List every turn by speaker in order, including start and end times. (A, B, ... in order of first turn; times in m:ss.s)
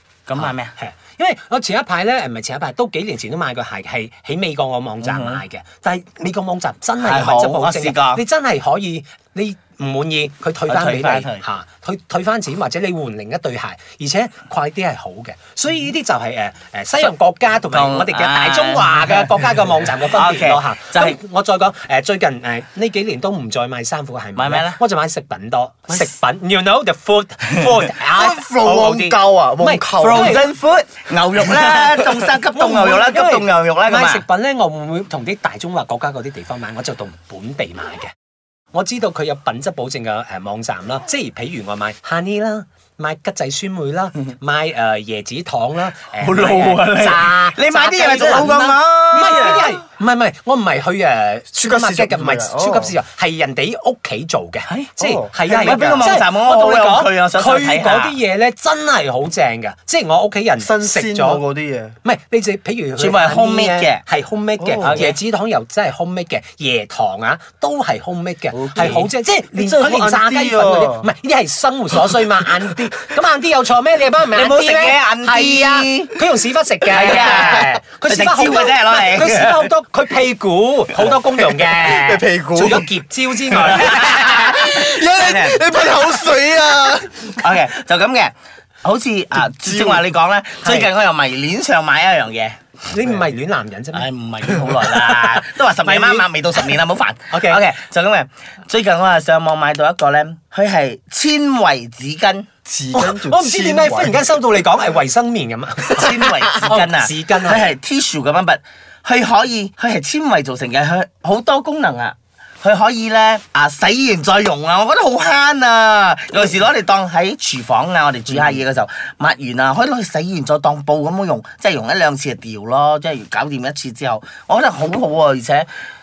0:00.3-0:00.7 A
0:00.4-0:30.4 B
0:05.0-0:05.4 A
0:07.0-0:08.2 A
0:10.7-0:11.4 A
0:17.7-0:19.3 A
0:20.0-0:21.2 A
0:24.4-0:24.8 A
0:27.5-0:27.8 A
0:28.1-0:30.3 C
0:30.0-0:34.2 A
0:32.5-0:38.1 B
0:38.7-1:01.4 B
0:46.2-0:49.8 A
0:49.3-0:49.7 C
0:51.5-0:53.0 C
0:54.7-0:55.0 A
0:55.0-0:56.1 C
0:55.5-0:58.2 A
1:00.6-1:02.0 C
1:02.0-1:24.6 B
1:03.0-1:04.0 A
1:04.6-1:05.0 C
1:04.8-1:05.2 A
1:08.5-1:09.1 A
1:09.5-1:11.1 C
1:14.3-1:16.2 A
1:16.9-1:19.7 A
1:20.9-1:21.2 A
1:21.3-1:22.9 C
1:23.5-1:27.4 C
1:23.6-1:26.4 A
1:27.3-1:32.6 A
1:29.6-1:30.0 C
1:30.6-1:30.9 B
1:32.9-1:34.1 B
1:33.9-1:42.5 A
1:35.2-1:36.3 B
1:37.3-1:37.7 B
1:42.7-1:44.3 C
1:42.9-1:47.7 B
1:45.9-2:05.7 A